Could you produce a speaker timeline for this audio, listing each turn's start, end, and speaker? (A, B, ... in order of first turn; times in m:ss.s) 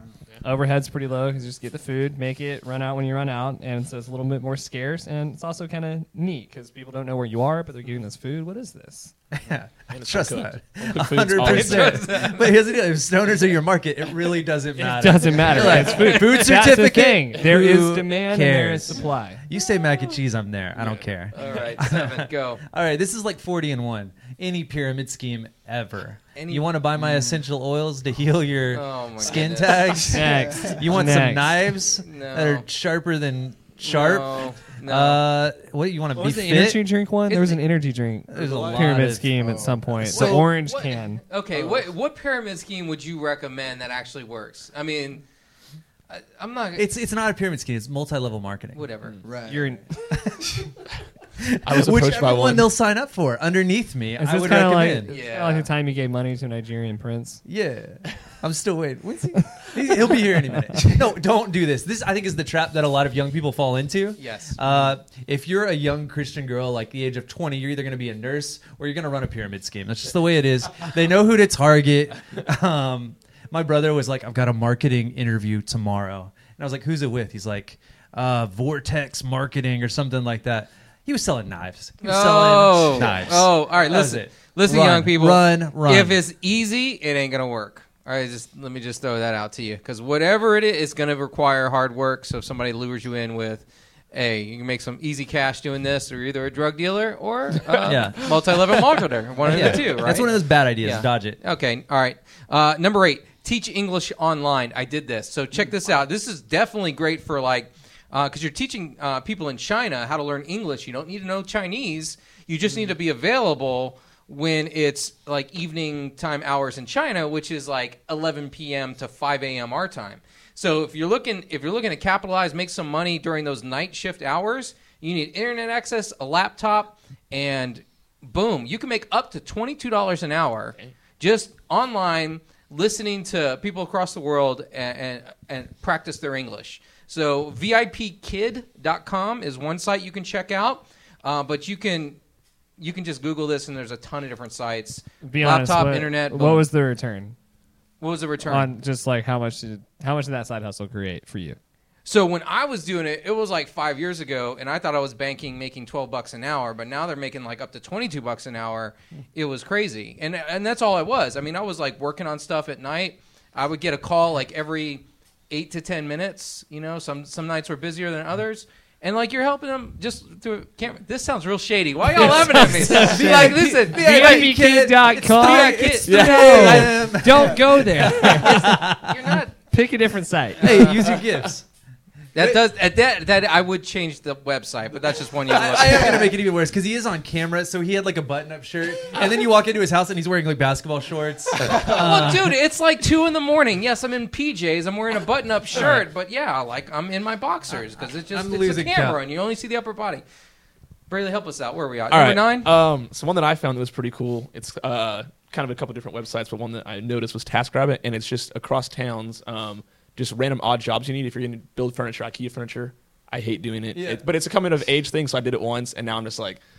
0:00.4-0:09.1 A
0:09.3-0:36.9 B
0:09.9-0:12.1 C
0:11.4-0:12.5 D
0:14.8-0:19.4 A
0:15.6-0:16.1 D
0:20.8-0:21.6 C
0:21.3-0:22.6 D
0:26.3-0:26.7 D
0:27.0-0:27.4 E
0:28.7-0:30.1 D
0:30.0-0:31.6 A
0:30.2-0:30.8 E
0:32.0-0:32.6 D
0:33.8-0:35.3 D
0:36.2-0:41.2 A
0:38.3-0:39.3 B
0:38.4-0:38.9 C
0:39.3-0:40.0 E
0:40.0-0:40.5 B
0:40.1-0:45.2 D
0:46.1-0:46.8 D
0:46.8-0:48.9 B
0:48.7-0:49.2 D
0:49.2-0:49.8 E
0:49.5-0:49.8 A
0:50.1-0:50.5 B
0:51.4-0:55.1 B
0:51.6-0:52.7 C
0:54.2-0:57.4 A
0:55.1-0:55.7 D
0:57.4-1:26.2 B
1:04.2-1:04.6 D
1:22.0-2:22.2 D
1:37.7-1:38.3 C
1:37.8-1:38.3 B
1:39.4-1:41.4 B
2:22.8-2:26.7 D
2:25.2-2:27.4 A
2:28.0-2:28.7 D
2:28.4-2:31.6 A
2:32.0-2:54.6 D
2:52.1-2:59.4 B
2:52.2-2:58.9 A
2:55.2-2:56.7 D
2:56.2-2:56.9 C
2:58.2-2:59.5 D
2:59.7-3:00.9 A
3:00.6-3:01.6 B
3:00.6-3:01.2 D
3:02.3-3:06.4 D
3:02.4-3:02.6 B
3:05.5-3:12.6 B
3:11.6-3:20.2 D
3:15.7-3:16.0 B
3:17.7-3:19.2 B
3:21.1-3:22.7 D
3:22.1-3:36.6 C
3:33.9-3:34.2 B